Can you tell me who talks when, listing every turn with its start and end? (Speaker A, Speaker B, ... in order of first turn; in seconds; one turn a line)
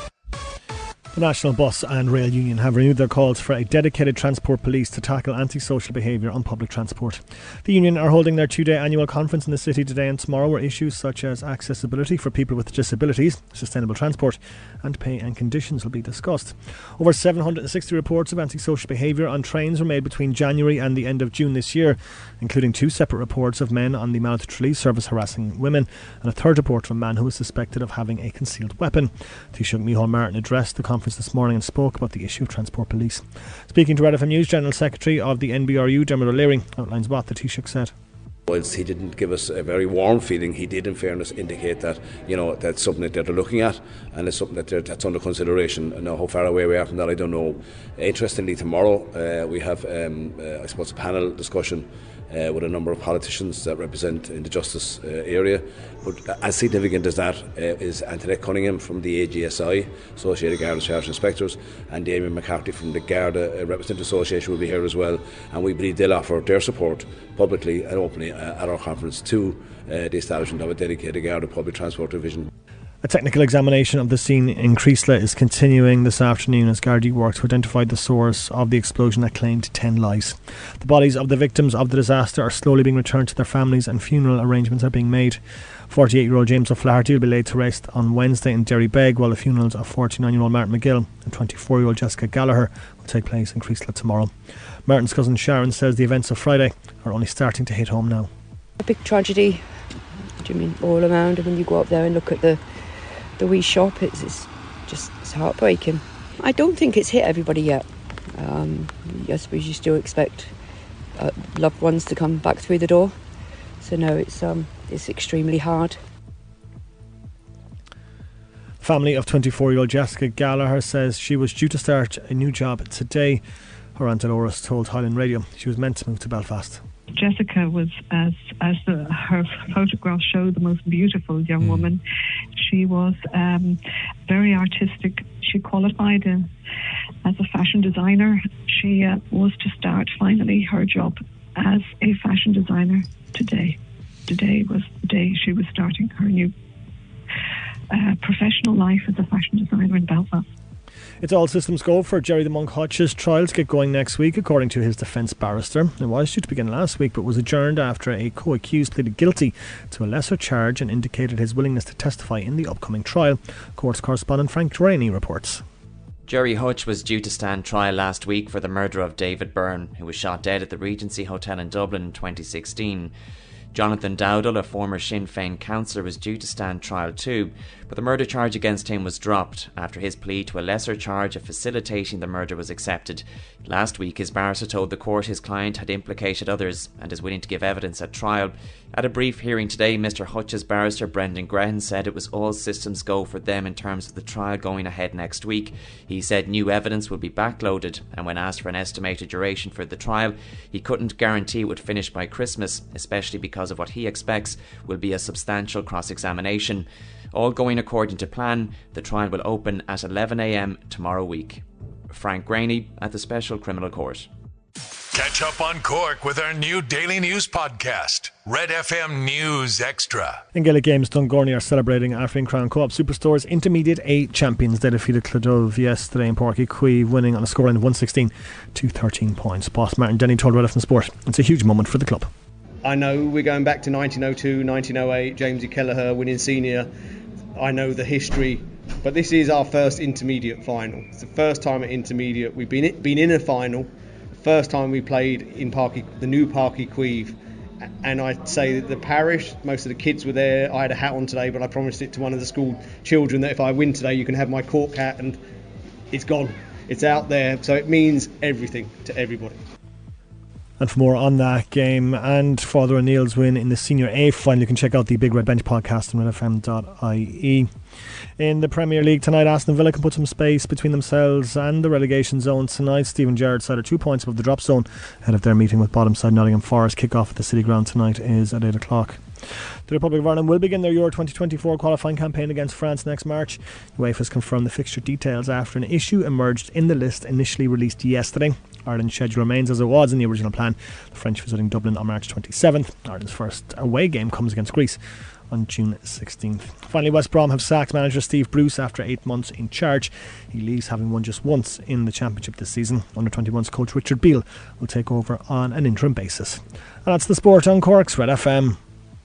Speaker A: 1.1-37.9
Speaker B: 38.5-72.5
Speaker A: 73.0-94.3
Speaker A: 94.9-98.3
Speaker C: 98.8-99.7
Speaker C: 100.4-102.6
Speaker C: 103.4-110.5
Speaker C: 111.2-113.2
Speaker C: 113.8-116.0
Speaker A: 118.8-123.4
Speaker A: 124.0-126.8
Speaker D: 127.2-132.0
Speaker D: 132.6-136.5
Speaker D: 137.2-146.5
Speaker D: 147.9-150.4
Speaker A: 151.2-165.6
Speaker E: 166.3-173.1
Speaker E: 173.7-214.3
Speaker F: 215.1-220.4
Speaker A: 220.5-232.3
Speaker G: 232.8-236.9
Speaker G: 237.6-247.4
Speaker G: 248.0-255.4
Speaker G: 256.1-259.6
Speaker A: 260.8-267.7
Speaker A: 268.4-279.2
Speaker A: 279.9-295.0
Speaker A: 295.5-308.8